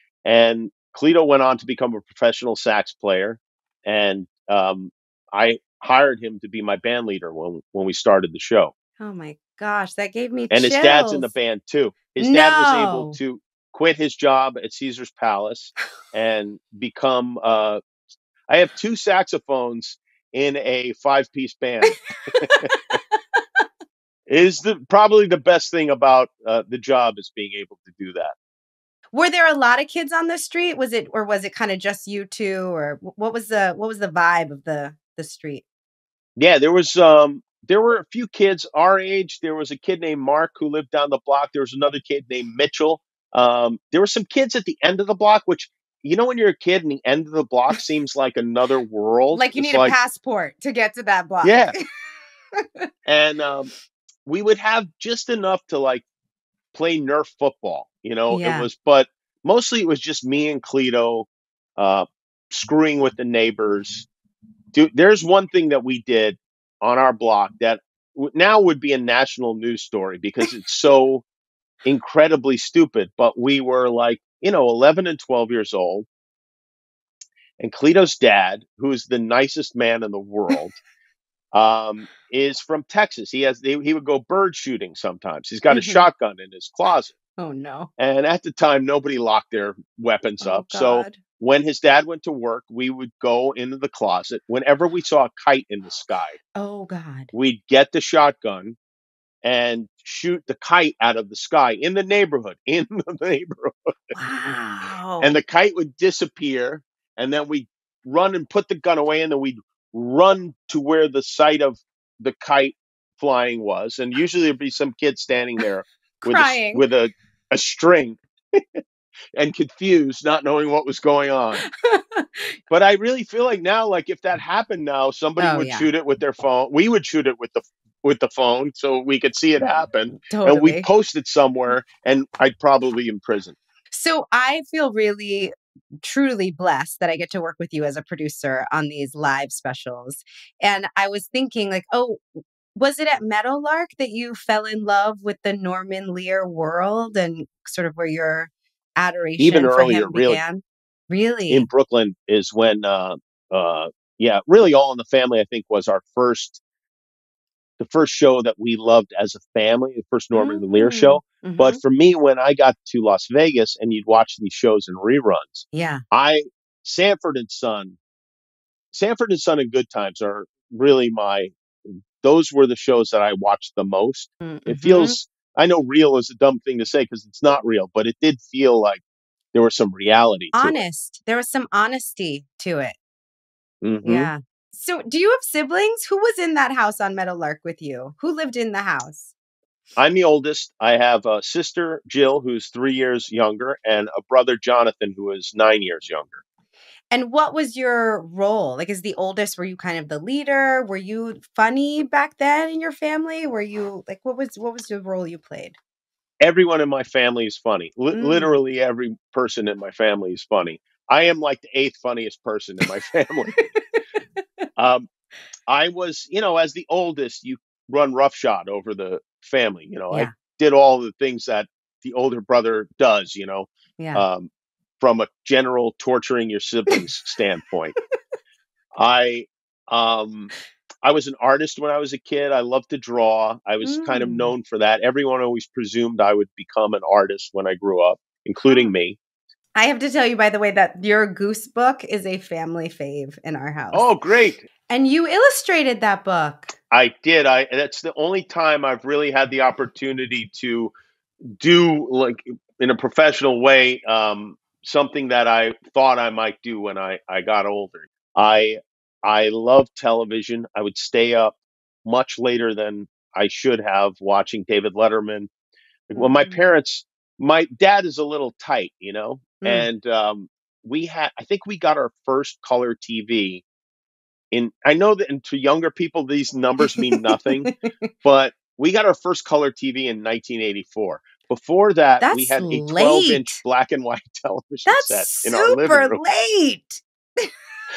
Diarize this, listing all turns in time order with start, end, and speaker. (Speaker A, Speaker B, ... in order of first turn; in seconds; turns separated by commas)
Speaker A: 0.2-8.7, Speaker B: 9.0-11.3, Speaker A: 10.5-17.8, Speaker B: 12.2-13.2, Speaker A: 18.5-22.7, Speaker B: 22.3-23.0, Speaker A: 24.3-28.3, Speaker B: 29.1-35.6, Speaker A: 36.4-49.9, Speaker B: 49.3-51.8, Speaker A: 51.4-51.8, Speaker B: 52.6-52.9, Speaker A: 53.1-53.7, Speaker A: 54.3-56.0, Speaker A: 56.7-64.1, Speaker B: 58.3-58.7, Speaker A: 64.7-71.2, Speaker A: 71.8-76.1, Speaker A: 77.6-80.8, Speaker A: 81.5-87.2, Speaker B: 85.7-86.1, Speaker B: 87.4-87.9, Speaker A: 88.0-96.4, Speaker B: 90.4-91.2, Speaker B: 96.5-97.3, Speaker A: 97.3-98.8, Speaker A: 99.4-104.1, Speaker B: 104.2-105.4, Speaker A: 105.2-118.8, Speaker B: 116.2-116.8, Speaker A: 119.4-121.6, Speaker B: 121.6-122.5, Speaker A: 122.7-133.6, Speaker B: 125.4-125.9, Speaker B: 130.3-130.9, Speaker B: 133.9-151.7, Speaker A: 149.4-150.4, Speaker A: 151.5-156.6, Speaker A: 157.8-168.0, Speaker B: 160.3-161.8, Speaker B: 165.7-166.0, Speaker A: 168.9-179.0, Speaker B: 174.4-175.2, Speaker A: 179.5-180.8, Speaker B: 180.5-183.0, Speaker A: 183.8-184.3, Speaker B: 184.1-189.3, Speaker A: 190.0-196.4, Speaker B: 197.1-205.8, Speaker A: 206.4-213.6, Speaker B: 208.1-208.6, Speaker A: 214.8-215.1, Speaker A: 215.7-227.9, Speaker B: 224.0-224.2, Speaker A: 229.0-230.5, Speaker A: 231.0-239.2, Speaker B: 233.8-234.5, Speaker B: 238.7-238.9, Speaker B: 239.8-244.1, Speaker A: 243.9-244.7, Speaker B: 244.9-246.8, Speaker A: 246.9-250.9, Speaker A: 251.6-265.5, Speaker A: 266.1-273.6, Speaker B: 266.1-266.6, Speaker B: 269.6-269.9, Speaker A: 274.5-277.7, Speaker B: 276.9-277.9, Speaker A: 278.2-286.2, Speaker B: 282.2-283.6, Speaker B: 284.9-287.5